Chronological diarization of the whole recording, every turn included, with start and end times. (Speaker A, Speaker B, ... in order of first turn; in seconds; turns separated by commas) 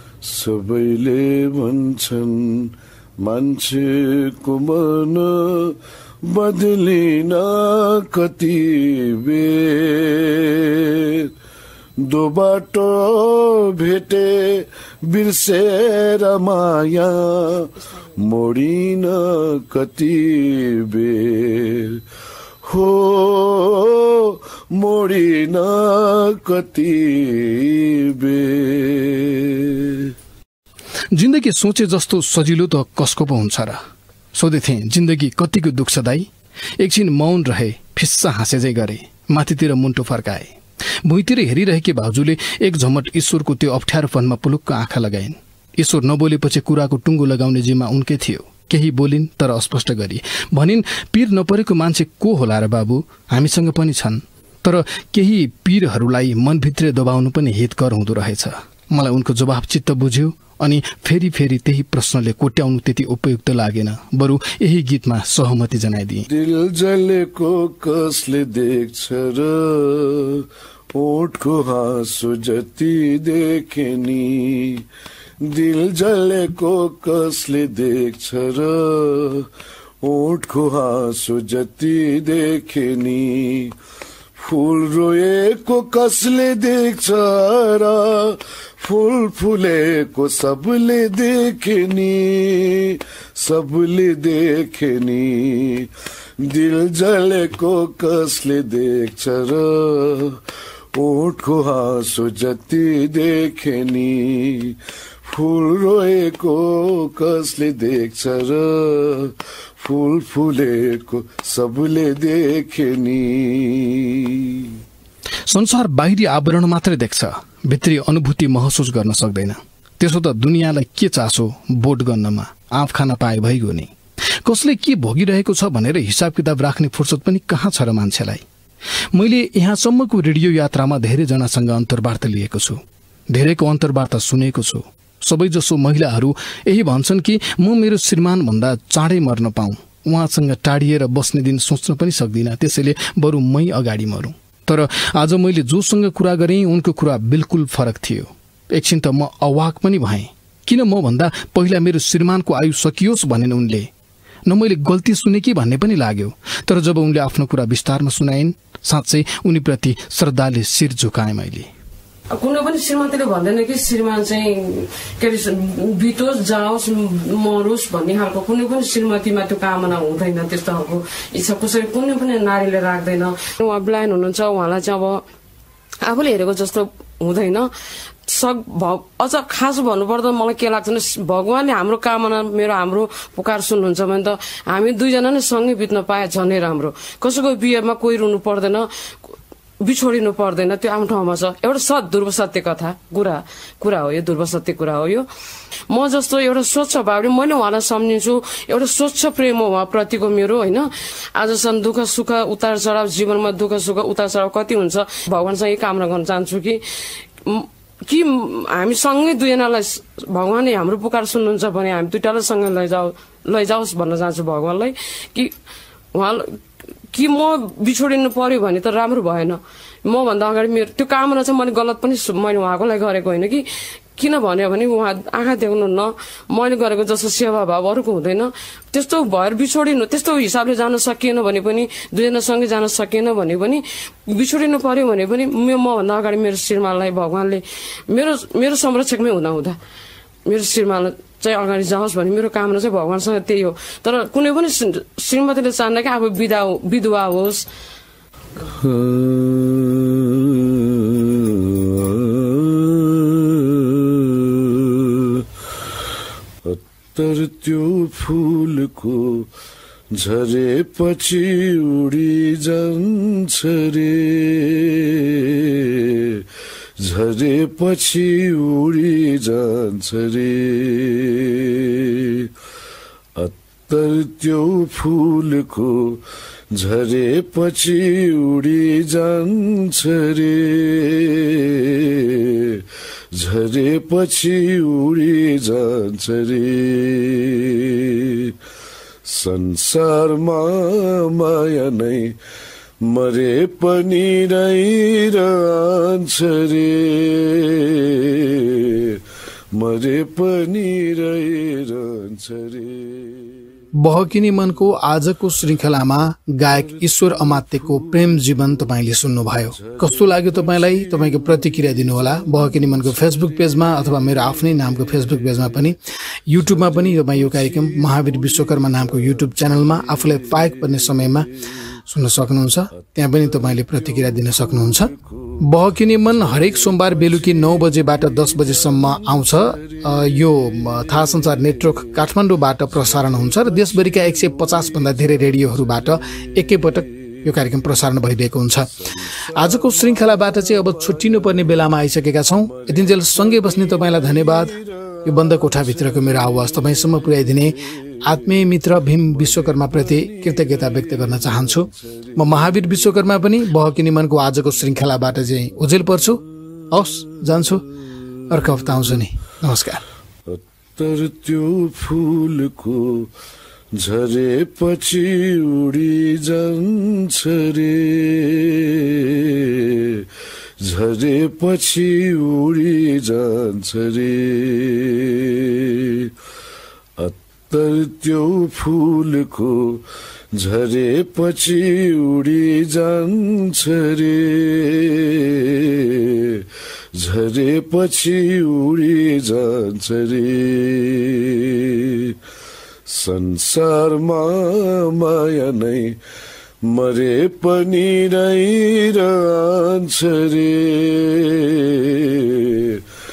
Speaker A: 0.2-11.3, Speaker A: 12.0-22.0, Speaker A: 22.6-30.1, Speaker B: 31.1-33.8, Speaker B: 34.3-66.3, Speaker A: 66.3-74.8, Speaker A: 75.4-79.5, Speaker A: 80.0-83.7, Speaker A: 84.4-100.4, Speaker A: 100.9-114.7, Speaker B: 115.5-128.4, Speaker B: 129.1-153.9, Speaker B: 154.5-161.7, Speaker C: 162.3-175.2, Speaker C: 176.0-177.7, Speaker C: 178.3-195.3, Speaker C: 195.9-206.8, Speaker C: 207.4-215.5, Speaker C: 216.1-216.6, Speaker C: 217.1-223.6, Speaker C: 224.2-239.8, Speaker C: 240.4-247.6, Speaker A: 248.6-255.5, Speaker A: 256.6-259.5, Speaker A: 260.1-266.4, Speaker A: 267.0-272.5, Speaker A: 273.4-288.5, Speaker A: 289.2-292.4, Speaker A: 293.0-299.2, Speaker A: 299.7-303.6, Speaker B: 303.9-316.0, Speaker A: 306.6-309.0, Speaker A: 309.6-315.9, Speaker B: 316.5-321.5, Speaker A: 316.5-321.5, Speaker B: 322.1-338.9, Speaker A: 323.0-332.3, Speaker A: 332.9-338.1, Speaker A: 339.0-353.3, Speaker B: 339.5-357.9, Speaker A: 356.9-359.2, Speaker B: 358.5-360.0, Speaker A: 360.4-363.3, Speaker A: 363.9-370.2, Speaker A: 370.8-376.3, Speaker A: 377.2-392.4, Speaker A: 393.1-396.2, Speaker A: 396.8-403.0